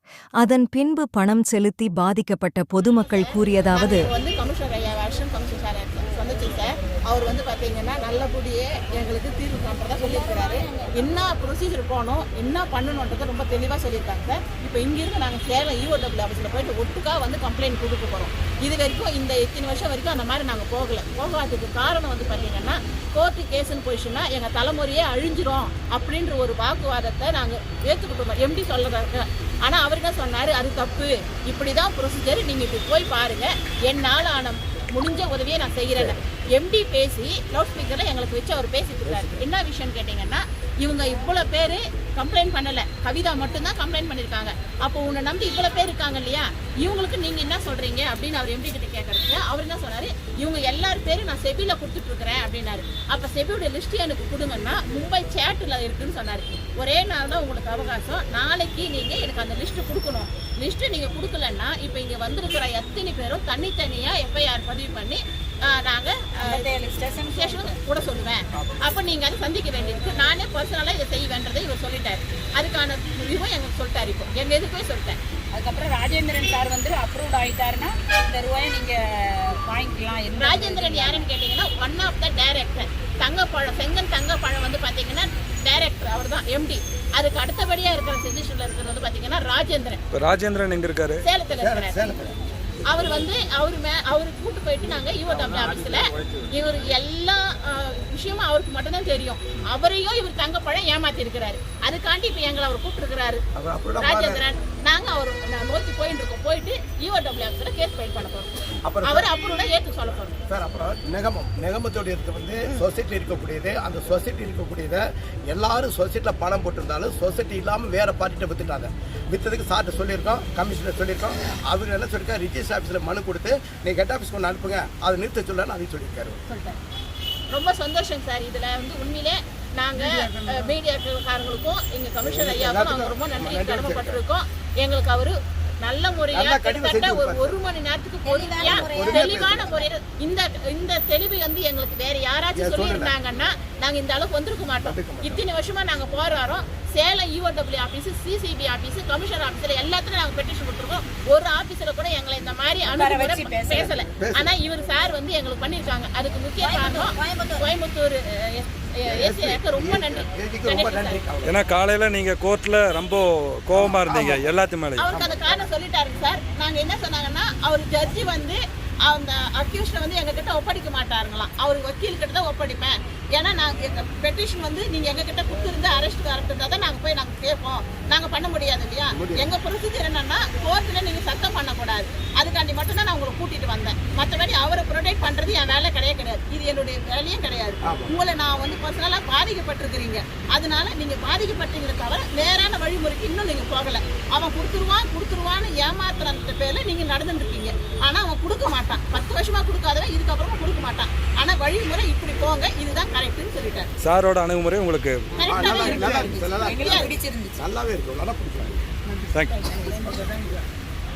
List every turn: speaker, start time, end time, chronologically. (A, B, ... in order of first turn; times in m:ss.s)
0:00.4-0:04.1 A
0:03.0-1:06.7 B
0:10.0-0:11.0 C
0:36.0-0:36.2 D
0:39.1-0:39.5 D
1:06.4-1:07.8 C
1:07.3-1:15.2 B
1:08.6-1:08.8 D
1:15.5-1:21.3 C
1:20.4-1:30.0 B
1:30.1-1:31.2 E
1:31.2-1:32.2 B
1:31.6-1:32.4 D
1:32.9-1:43.4 B
1:35.3-1:36.4 D
1:43.6-1:44.4 D
1:44.0-1:50.4 B
1:48.8-1:49.4 D
1:50.5-2:06.4 D
2:06.5-2:06.8 B
2:07.5-2:41.2 B
2:10.0-2:10.8 D
2:12.2-2:14.2 D
2:16.3-2:17.6 D
2:18.2-2:19.9 C
2:18.6-2:19.7 D
2:22.6-2:23.1 D
2:24.8-2:25.4 D
2:32.9-2:34.0 C
2:34.2-2:34.5 D
2:36.6-2:37.7 C
2:39.1-2:41.6 D
2:41.4-2:45.1 E
2:43.8-2:44.5 D
2:45.0-3:23.9 B
2:45.1-2:45.5 D
2:59.1-2:59.5 D
3:07.8-3:08.1 D
3:24.0-3:25.2 E
3:25.4-3:27.1 B
3:25.4-3:27.6 C
3:25.5-3:28.9 D
3:29.1-3:30.3 C
3:29.8-3:30.6 D